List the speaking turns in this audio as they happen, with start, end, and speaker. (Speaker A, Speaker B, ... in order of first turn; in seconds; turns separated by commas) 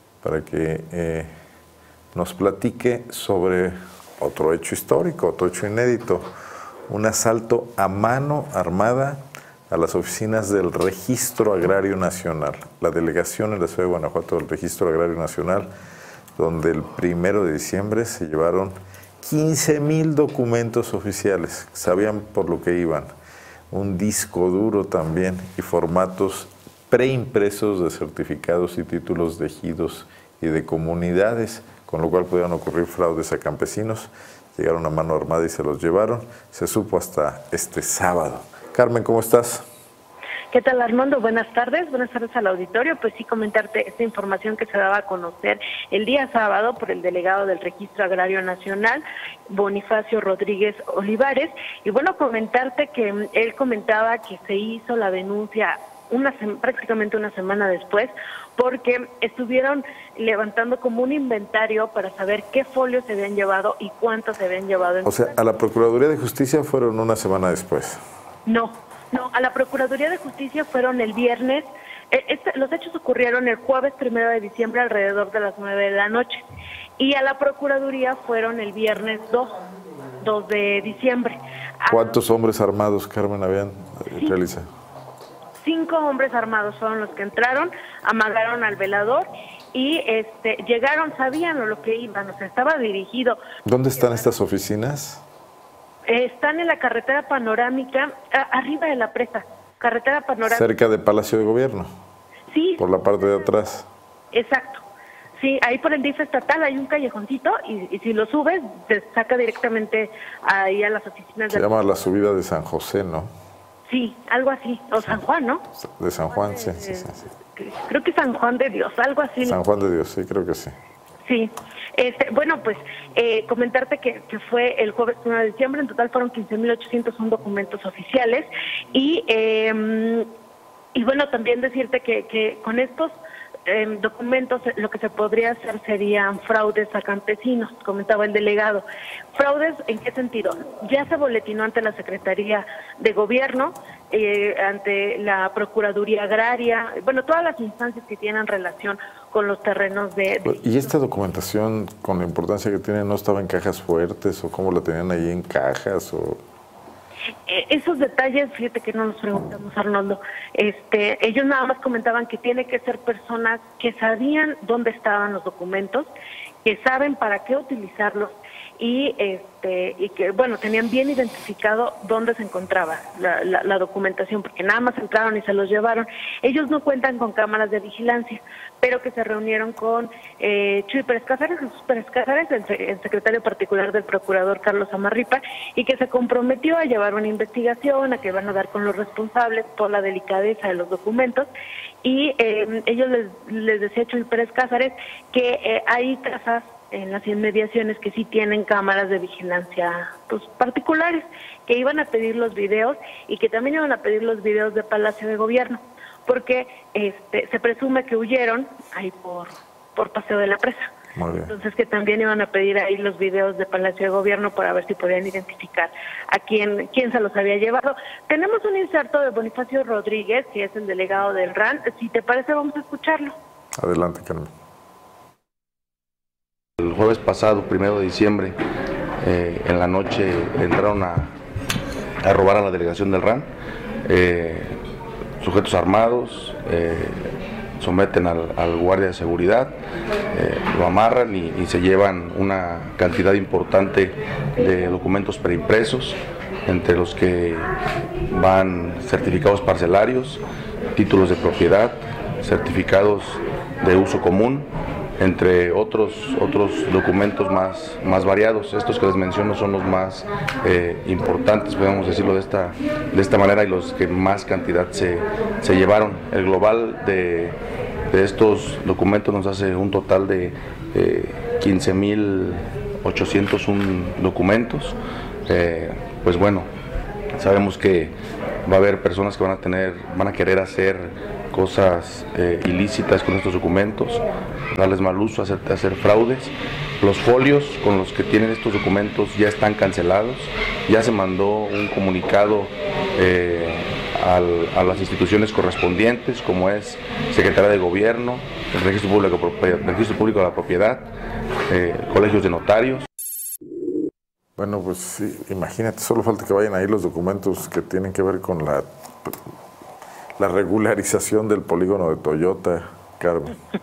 Speaker A: 0.2-1.3, Speaker A: 2.1-6.3, Speaker A: 6.9-15.7, Speaker A: 16.4-23.1, Speaker A: 23.7-39.6, Speaker B: 40.5-65.4, Speaker A: 65.0-68.0, Speaker B: 68.5-76.4, Speaker B: 77.0-79.6, Speaker B: 80.2-82.2, Speaker A: 81.9-84.7, Speaker B: 85.6-93.4, Speaker A: 93.6-95.2, Speaker B: 96.1-100.7, Speaker A: 100.4-101.9, Speaker B: 102.5-102.8, Speaker A: 102.8-103.9, Speaker B: 104.3-104.8, Speaker B: 105.4-111.7, Speaker A: 111.5-113.3, Speaker B: 113.9-115.6, Speaker A: 115.8-117.2, Speaker B: 116.3-119.6, Speaker A: 119.4-120.7, Speaker B: 121.2-130.3, Speaker B: 130.9-133.1, Speaker B: 133.7-138.8, Speaker B: 139.3-150.9, Speaker A: 150.4-156.4, Speaker B: 157.5-166.1, Speaker B: 166.6-191.5, Speaker B: 192.0-210.9, Speaker A: 211.1-211.5, Speaker B: 211.4-223.3, Speaker A: 223.8-224.5, Speaker C: 226.8-228.6, Speaker C: 229.2-231.3, Speaker C: 232.2-233.5, Speaker C: 234.0-234.8, Speaker C: 235.4-239.7, Speaker C: 240.3-247.7, Speaker C: 248.3-250.4, Speaker C: 250.9-254.7, Speaker C: 255.2-267.5, Speaker C: 268.1-276.7, Speaker C: 277.4-278.1, Speaker C: 278.6-301.1, Speaker C: 301.7-303.1, Speaker A: 304.6-309.4, Speaker A: 310.4-313.6